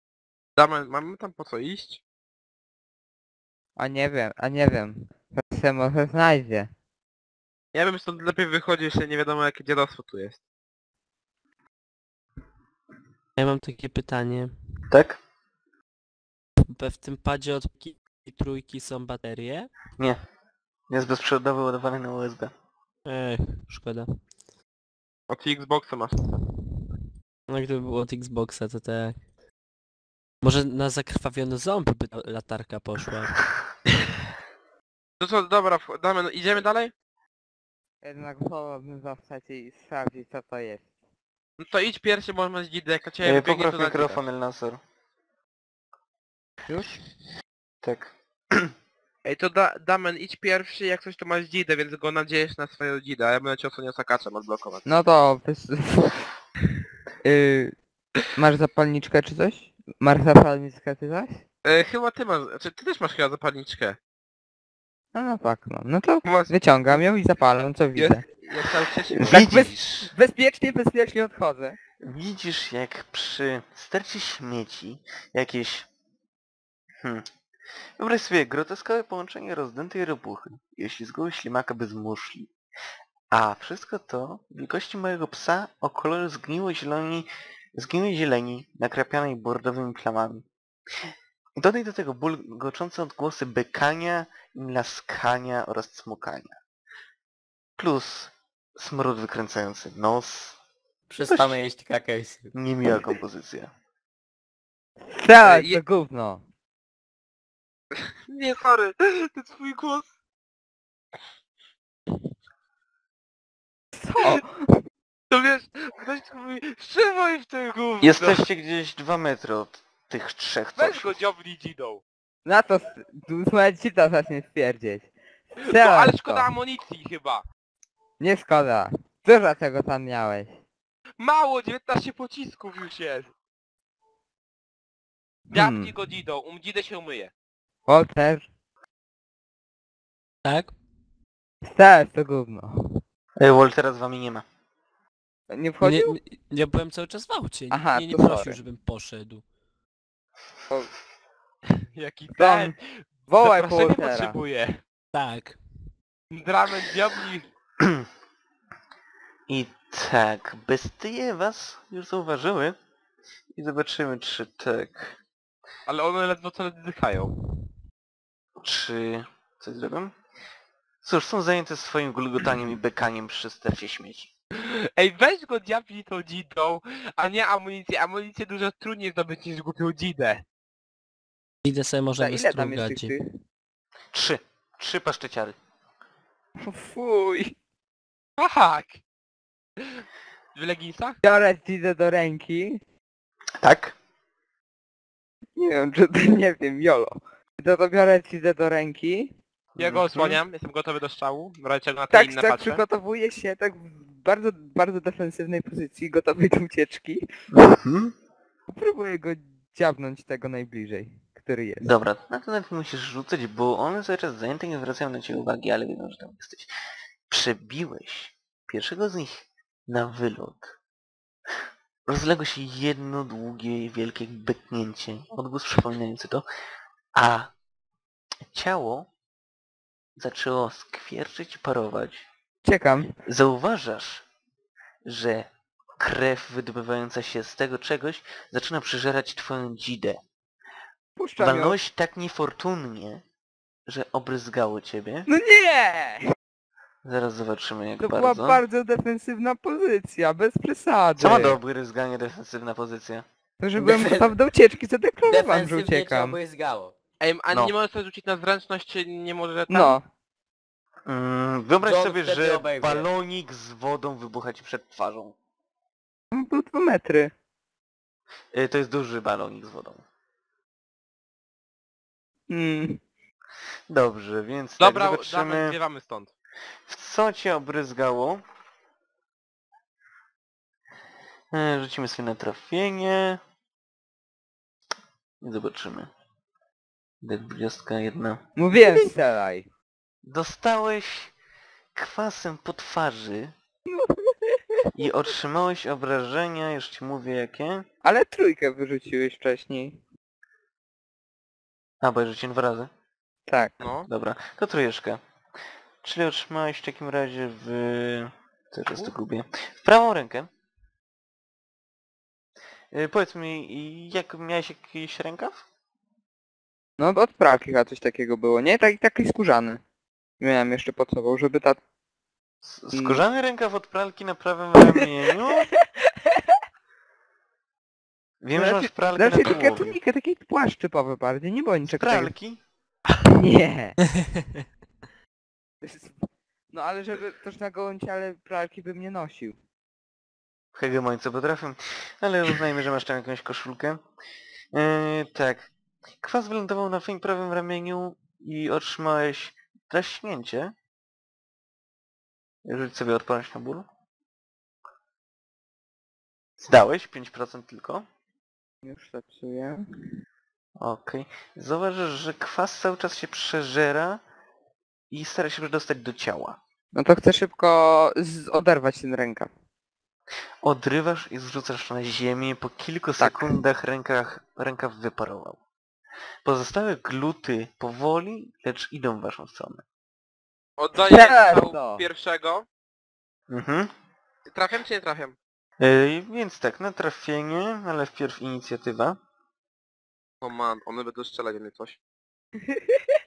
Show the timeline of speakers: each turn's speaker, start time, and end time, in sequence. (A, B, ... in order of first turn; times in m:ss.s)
0:00.6-0:02.0 A
0:03.8-0:06.7 B
0:07.7-0:10.4 A
0:13.4-0:14.6 C
0:14.9-0:15.2 D
0:16.7-0:19.7 C
0:20.9-0:22.5 D
0:23.0-0:24.2 C
0:25.3-0:26.3 A
0:27.5-0:29.2 C
0:30.4-0:33.5 C
0:35.2-0:36.9 A
0:38.0-0:40.8 B
0:41.6-0:44.2 A
0:43.2-0:44.8 D
0:47.8-0:48.7 D
0:49.2-0:54.8 A
0:54.8-0:56.2 B
0:57.2-0:57.7 B
0:58.3-1:01.4 B
1:01.6-1:04.0 A
1:05.1-1:08.2 B
1:06.2-1:07.0 A
1:08.0-1:09.4 A
1:09.1-1:10.1 D
1:09.3-1:11.8 B
1:12.0-1:15.9 D
1:17.0-1:17.3 D
1:18.0-1:22.5 D
1:23.3-1:30.4 D
1:31.6-1:36.6 D
1:37.8-1:40.6 D
1:41.1-1:42.5 E
1:41.2-1:41.6 D
1:42.5-1:43.7 D
1:45.1-1:46.4 B
1:45.4-1:45.8 A
1:48.2-1:50.1 A
1:54.0-1:54.8 B
1:55.3-1:58.4 A
1:58.0-2:01.2 D
2:00.8-2:02.0 A
2:02.4-2:06.5 B
2:05.6-2:07.4 A
2:08.2-2:10.5 B
2:11.2-2:13.3 A
2:15.5-2:15.9 B
2:15.5-2:17.3 A
2:17.9-2:18.5 B
2:20.4-2:20.8 C
2:21.6-2:23.0 B
2:23.4-2:24.4 D
2:25.5-2:26.2 B
2:25.8-2:29.4 C
2:27.7-2:28.6 B
2:31.9-2:34.8 A
2:32.4-2:32.7 B
2:33.3-2:34.4 B
2:35.1-2:35.6 C
2:36.3-2:37.5 A
2:37.8-2:38.0 D
2:39.5-2:42.8 D
2:43.5-2:45.2 D
2:45.9-2:47.3 A
2:48.6-2:50.1 D
2:51.0-2:54.3 D
2:54.5-3:00.4 A
3:01.6-3:03.1 C
3:02.2-3:03.2 B
3:04.1-3:05.6 D
3:06.6-3:07.5 B
3:08.4-3:09.0 A
3:09.8-3:11.2 A
3:11.2-3:12.8 B
3:13.6-3:14.0 D
3:15.6-3:19.3 B
3:19.8-3:20.4 D
3:19.8-3:22.8 A
3:22.1-3:27.2 B
3:27.5-3:28.1 D
3:28.7-3:31.9 B
3:31.8-3:36.7 D
3:37.3-3:40.7 D
3:42.0-3:46.4 D
3:47.1-3:47.5 D
3:48.5-3:49.1 D
3:50.2-3:52.3 D
3:52.6-3:53.1 B
3:53.2-3:54.2 D
3:55.0-4:00.2 D
4:01.2-4:01.8 B
4:01.4-4:03.2 D
4:03.8-4:05.3 D
4:05.3-4:06.2 B
4:07.0-4:08.6 D
4:08.0-4:11.6 B
4:11.2-4:13.2 D
4:13.6-4:16.4 B
4:13.8-4:14.3 E
4:15.2-4:16.9 E
4:17.2-4:20.0 A
4:19.7-4:20.0 B
4:21.0-4:25.3 D
4:21.8-4:23.0 E
4:26.3-4:27.3 B
4:28.5-4:30.0 D
4:32.5-4:33.0 B
4:33.9-4:35.8 D
4:34.8-4:36.3 A
4:36.9-4:38.4 D
4:41.5-4:43.4 D
4:45.4-4:46.1 D
4:47.2-4:48.4 D
4:48.6-4:49.7 B
4:50.2-4:51.3 D
4:51.9-4:53.5 D
4:53.9-4:54.6 B
4:54.9-4:57.8 D
4:58.0-5:00.0 B
5:02.0-5:02.9 D
5:03.5-5:03.7 B
5:03.8-5:04.1 A
5:04.1-5:05.2 D
5:06.0-5:10.5 D
5:12.9-5:15.6 D
5:17.0-5:19.8 B
5:20.4-5:21.8 B
5:22.6-5:25.7 D
5:22.9-5:23.2 B
5:26.2-5:26.5 B
5:28.4-5:30.0 D
5:28.5-5:32.3 B
5:31.9-5:32.6 D
5:33.2-5:34.0 B
5:35.8-5:39.6 B
5:40.7-5:44.0 D
5:44.7-5:50.7 D
5:52.6-5:53.8 D
5:56.6-5:58.0 D
5:58.8-5:59.8 B
6:00.8-6:04.2 D
6:05.1-6:06.6 D
6:06.9-6:09.5 B
6:10.6-6:15.6 D
6:13.2-6:13.5 B
6:16.4-6:19.8 D
6:20.8-6:22.6 A
6:21.0-6:22.0 B
6:23.5-6:23.9 D
6:24.5-6:25.4 A
6:25.8-6:29.2 D
6:30.4-6:32.0 A
6:32.7-6:33.0 B